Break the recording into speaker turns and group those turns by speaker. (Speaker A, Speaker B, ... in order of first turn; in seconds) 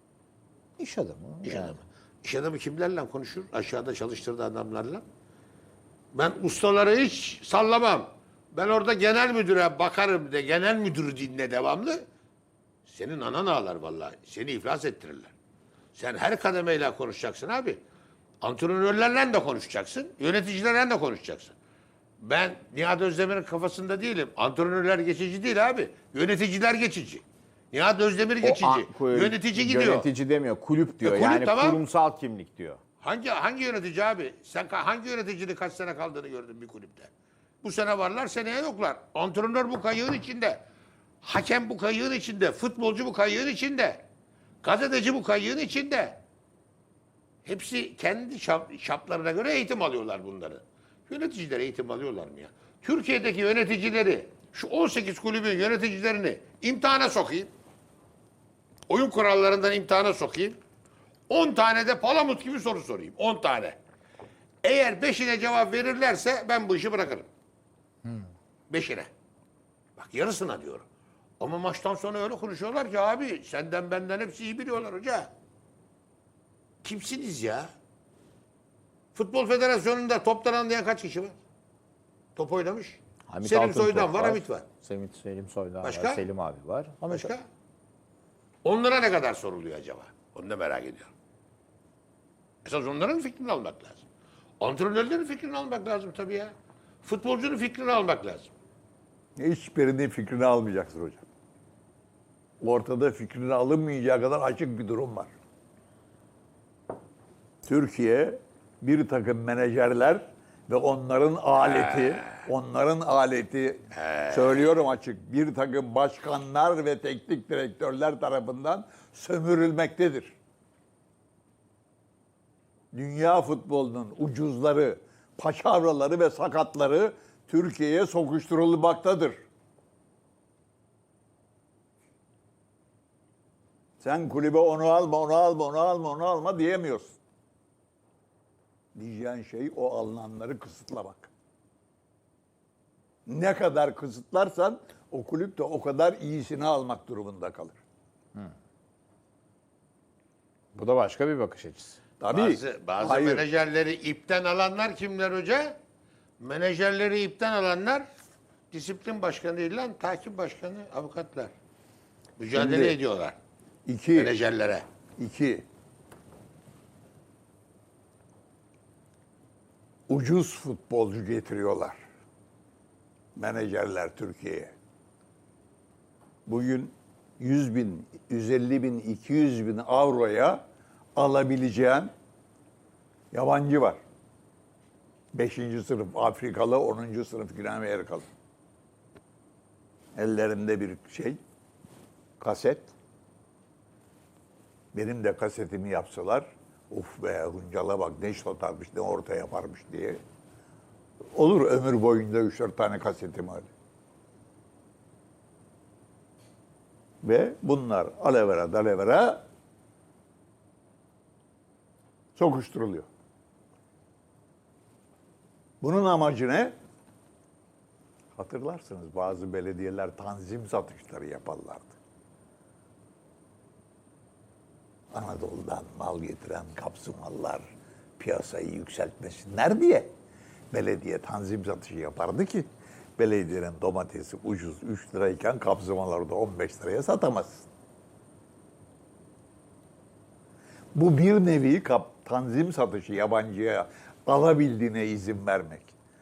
Speaker A: 0.8-1.8, 28.4-32.8, 83.3-87.3, 150.8-152.0
Speaker B: 1.4-5.0, 6.1-12.1, 12.9-15.3, 15.9-17.8, 18.4-21.5, 22.2-30.1, 31.0-31.9, 33.0-37.1, 37.6-40.6, 41.2-44.0, 44.6-46.2, 47.5-57.5, 58.9-60.6, 61.3-63.8, 64.6-67.3, 68.7-69.1, 70.0-70.9, 71.4-75.3, 76.8-77.7, 79.2-81.3, 82.4-84.7, 85.8-86.2, 87.1-87.4, 88.6-91.1, 92.7-94.0, 94.6-98.5, 111.7-112.1, 114.0-114.5, 152.3-155.8, 156.4-158.1, 158.7-161.5, 162.4-163.4, 164.1-164.8
Speaker C: 99.4-101.2, 102.6-105.3, 107.7-120.3, 122.9-129.4, 134.0-137.2, 138.9-141.3, 143.3-147.8, 152.2-153.4, 162.5-163.0, 163.9-164.3, 165.2-165.6, 170.1-172.0, 173.4-174.8, 176.5-180.6, 181.2-182.1, 183.3-184.0, 185.3-188.3, 190.2-191.4, 192.4-192.9, 194.9-200.2, 201.3-203.7, 207.2-209.4, 212.4-213.1, 215.8-216.7, 218.3-222.0, 225.1-227.7, 228.2-230.1, 230.7-232.7, 233.2-237.7, 240.9-245.9